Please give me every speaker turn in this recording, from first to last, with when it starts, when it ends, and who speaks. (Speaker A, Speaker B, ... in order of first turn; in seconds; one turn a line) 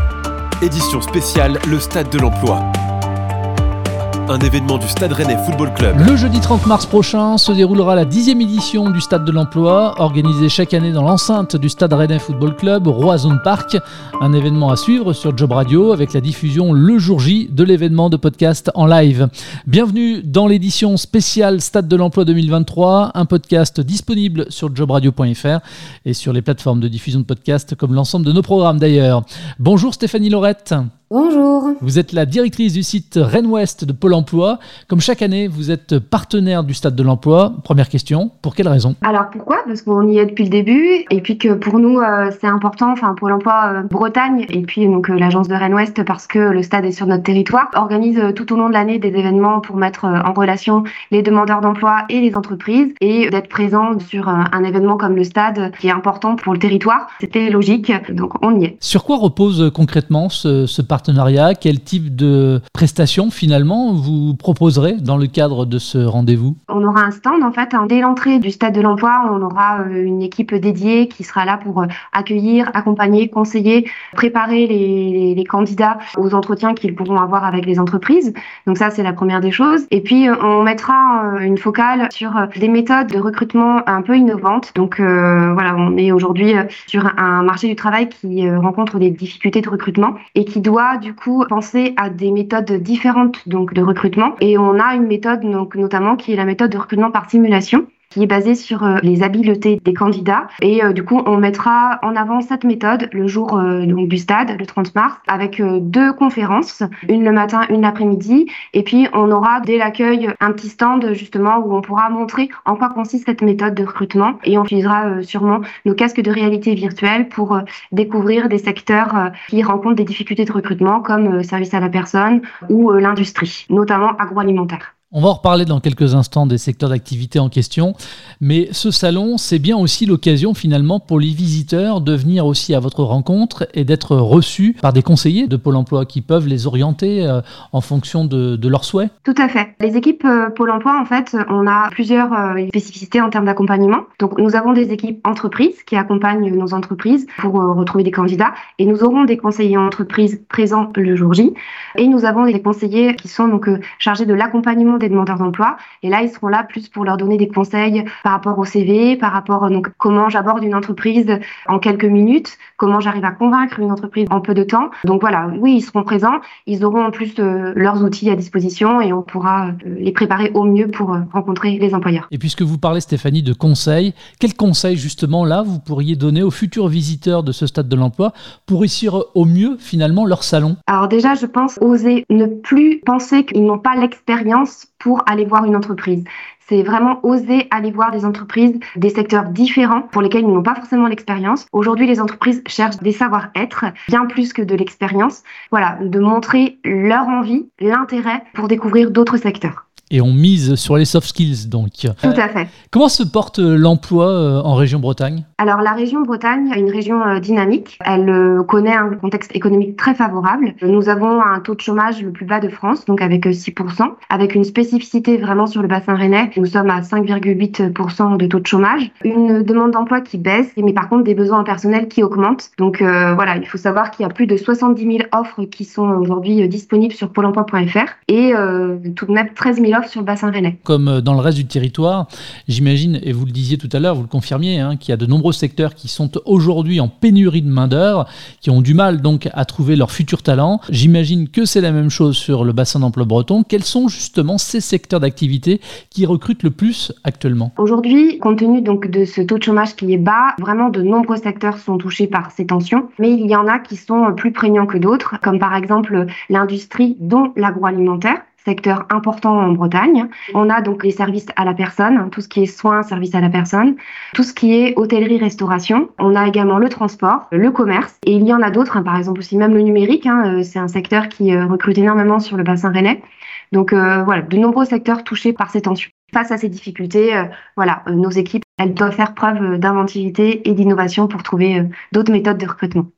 Speaker A: 0.6-2.6
Speaker A: 4.3-6.1
Speaker B: 5.9-30.9
Speaker C: 31.1-31.8
Speaker B: 31.8-39.0
Speaker C: 39.0-58.8
Speaker B: 58.8-66.6
Speaker C: 66.7-124.9
Speaker B: 125.1-139.1
Speaker C: 139.2-172.3
Speaker B: 172.3-180.8
Speaker C: 180.9-199.8
Speaker B: 200.1-202.3
Speaker C: 202.2-202.7
Speaker B: 202.9-205.4
Speaker C: 205.6-230.8
Speaker B: 230.8-247.7
Speaker C: 247.8-283.1